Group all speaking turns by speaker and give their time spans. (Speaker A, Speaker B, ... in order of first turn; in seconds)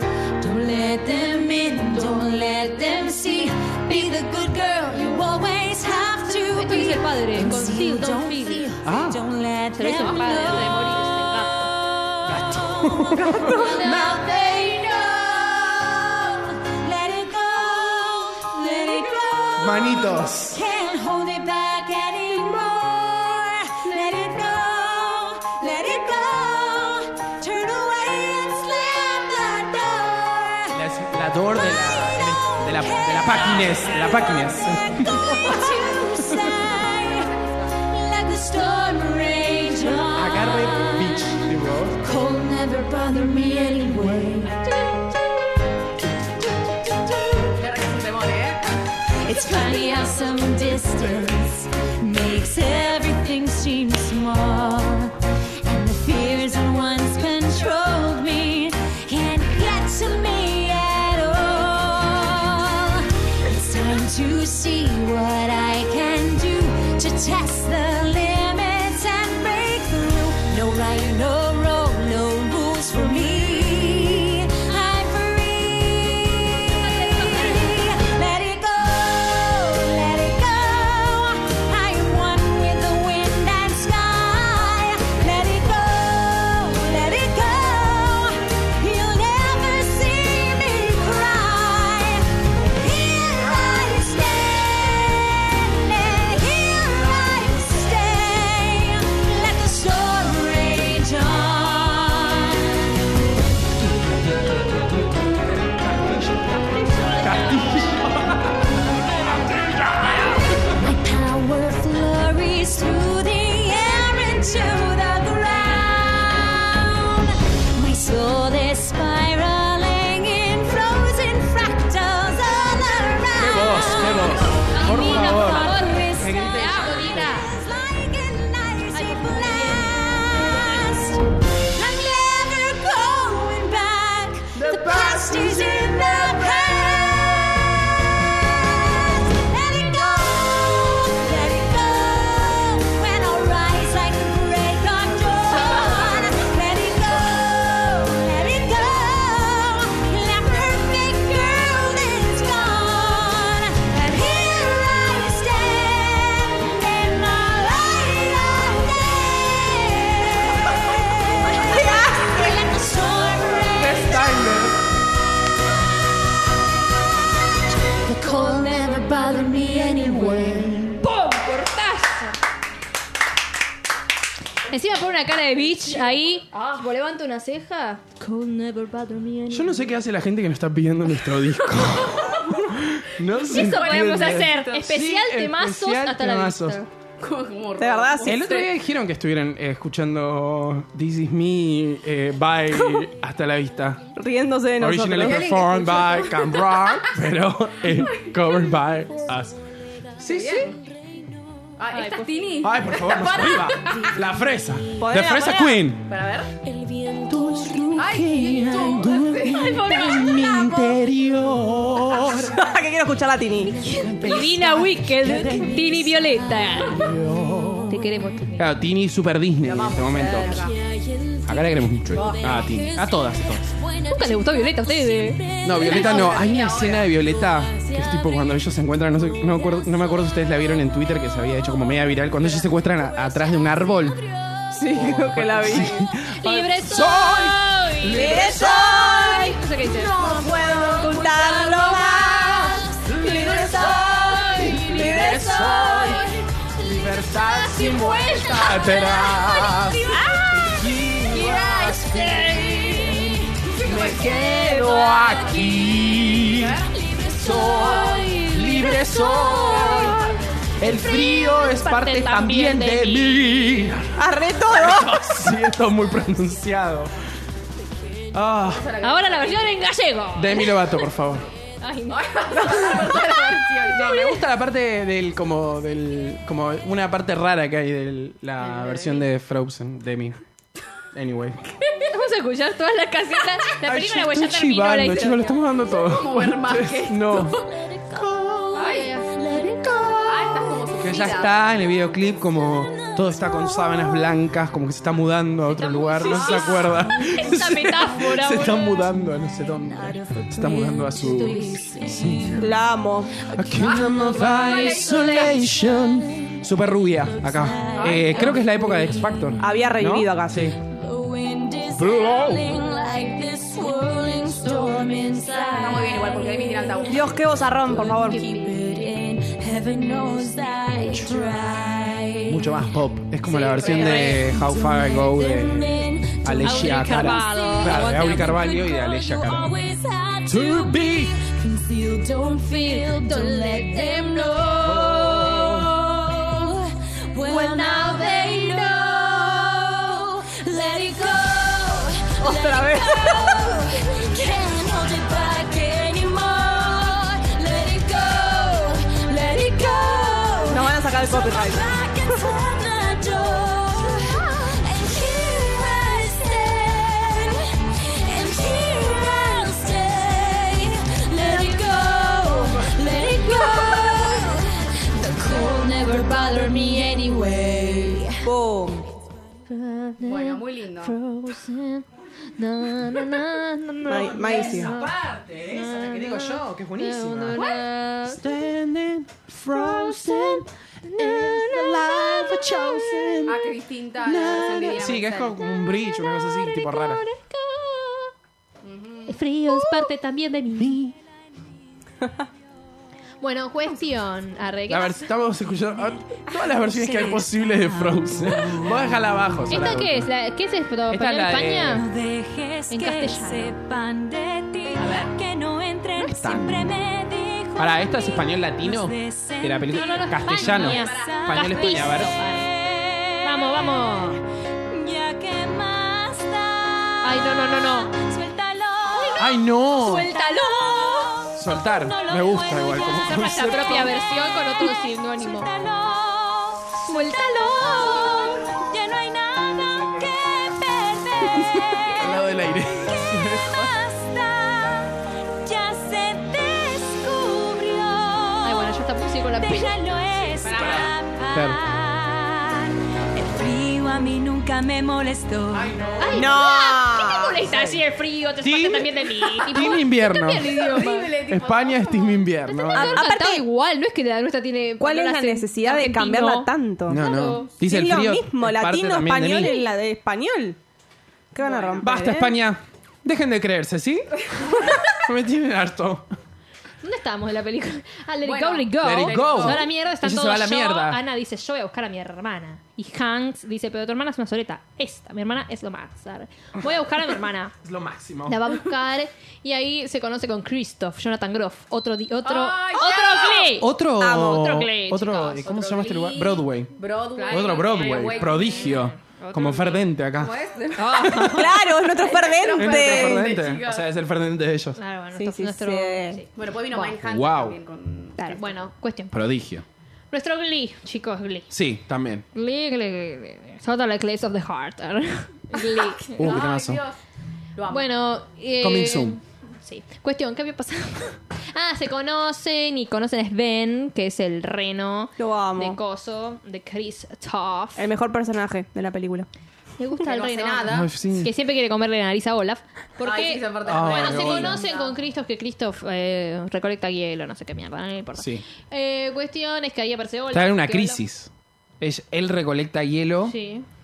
Speaker A: 0.4-11.0, 11.6-30.8, 31.7-45.2, 46.7-47.5, 49.2-102.9, 107.0-107.6, 110.2-164.7, 165.6-166.2, 167.9-171.1, 205.0-205.7, 206.7-208.0, 209.7-211.2, 213.7-214.4, 215.3-217.2, 220.5-226.7, 227.4-228.6, 229.4-230.4, 232.4-234.7, 238.5-260.4, 287.9-290.7, 292.7-294.3, 296.7-297.6, 298.7-299.0, 299.7-302.7, 303.5-306.6, 307.2-309.6, 310.8-322.9, 323.8-368.5, 381.7-383.5, 396.8-398.9, 401.9-414.4, 414.9-445.9
Speaker B: 6.5-8.7, 9.8-11.7, 13.5-14.2, 76.9-77.6, 124.7-127.5, 128.9-131.0, 168.3-169.6, 170.8-172.3, 174.7-179.9, 183.4-186.9, 201.9-202.5, 209.5-210.6, 213.8-217.2, 217.9-218.7, 224.1-226.2, 236.4-240.3, 241.1-242.6, 243.3-245.2, 250.1-250.6, 251.3-253.3, 254.3-255.5, 260.8-263.5, 269.0-271.0, 271.8-273.3, 282.0-285.6, 288.9-289.6, 295.7-298.9, 301.3-302.3, 323.9-324.4, 326.6-328.6, 332.8-334.4, 337.5-337.9, 369.7-372.1, 372.6-375.1, 375.7-378.4, 379.7-382.9, 385.9-388.3, 389.3-391.0, 393.4-395.3, 399.7-402.1, 402.9-403.8, 405.0-405.3, 409.9-412.7, 413.4-414.4, 417.2-418.1, 419.1-421.4, 423.1-425.7, 427.1-428.5, 438.6-440.0, 446.2-451.4, 452.8-457.7, 467.0-477.7, 478.5-485.7, 487.4-490.1, 490.9-491.9, 495.0-497.2, 498.4-499.3, 500.3-501.7, 502.5-506.6, 507.9-518.1, 520.0-531.2, 533.5-533.9
Speaker C: 8.8-9.2, 12.3-14.0, 19.6-20.6, 30.7-35.6, 40.1-42.0, 103.8-108.7, 109.3-110.6, 123.4-127.3, 134.5-136.8, 163.7-164.8, 179.5-186.8, 188.2-194.0, 194.8-199.6, 200.2-200.7, 202.6-206.1, 207.3-212.6, 213.9-215.9, 216.9-218.0, 218.6-220.6, 221.4-223.7, 225.6-234.2, 234.9-239.1, 240.7-241.1, 243.0-252.5, 253.8-256.8, 257.4-260.2, 260.8-267.1, 268.3-268.9, 270.4-271.5, 273.9-280.4, 281.1-281.6, 283.8-288.9, 289.8-290.3, 290.9-302.7, 303.4-310.8, 311.9-312.8, 322.5-329.7, 330.5-331.4, 334.8-335.9, 374.2-377.6, 378.2-387.3, 390.8-391.1, 394.9-400.3, 401.1-402.0, 406.2-406.9, 407.8-412.3, 419.4-420.3, 421.6-424.1, 432.1-433.9, 440.7-441.8, 445.7-446.6, 447.7-448.0, 448.6-450.8, 451.5-453.2, 457.1-459.8, 462.0-464.4, 465.1-466.3, 469.0-471.2, 477.8-478.6, 483.8-486.9, 487.5-490.6, 491.1-491.5, 492.7-495.0, 497.1-497.8, 499.3-499.9, 501.7-502.5, 506.4-507.0, 508.8-509.4, 520.9-521.5, 523.9-524.8, 528.4-528.6, 530.5-531.5, 532.0-533.5
Speaker D: 35.6-36.0, 36.6-37.8, 47.6-48.7, 176.5-176.9, 183.5-184.9, 187.2-188.7, 195.2-197.0, 200.3-200.8, 201.8-204.1, 206.1-206.5, 208.0-210.3, 219.6-220.8, 225.8-227.1, 253.8-254.5, 256.5-256.9, 259.9-260.3, 268.6-269.8, 272.1-274.4, 278.6-279.3, 285.9-287.7, 288.7-289.2, 290.3-291.6, 296.3-296.8, 304.2-305.3, 307.9-308.5, 315.8-317.4, 323.5-324.4, 370.2-371.1, 377.6-377.9, 383.5-385.6, 388.8-389.4, 410.6-411.5, 440.6-441.1, 450.4-452.5, 457.2-457.7, 461.6-462.1, 468.4-469.9, 482.4-483.8, 485.6-489.0, 490.4-494.1, 496.6-498.7, 505.7-507.2, 507.8-508.1, 520.2-521.1, 523.2-525.2
Speaker E: 187.8-188.6, 192.7-193.1, 194.2-195.6, 205.0-205.8, 212.2-213.8, 234.7-236.1, 238.1-242.8, 244.8-245.5, 264.1-265.2, 302.6-303.5, 309.6-310.7, 317.1-318.5, 342.4-343.6, 350.7-352.4, 368.4-369.1, 374.1-374.9, 446.4-447.7, 452.9-453.6, 455.0-457.2, 457.8-460.8, 461.5-462.6, 484.2-484.8, 491.3-493.6, 495.4-496.4, 515.4-516.0, 518.0-519.5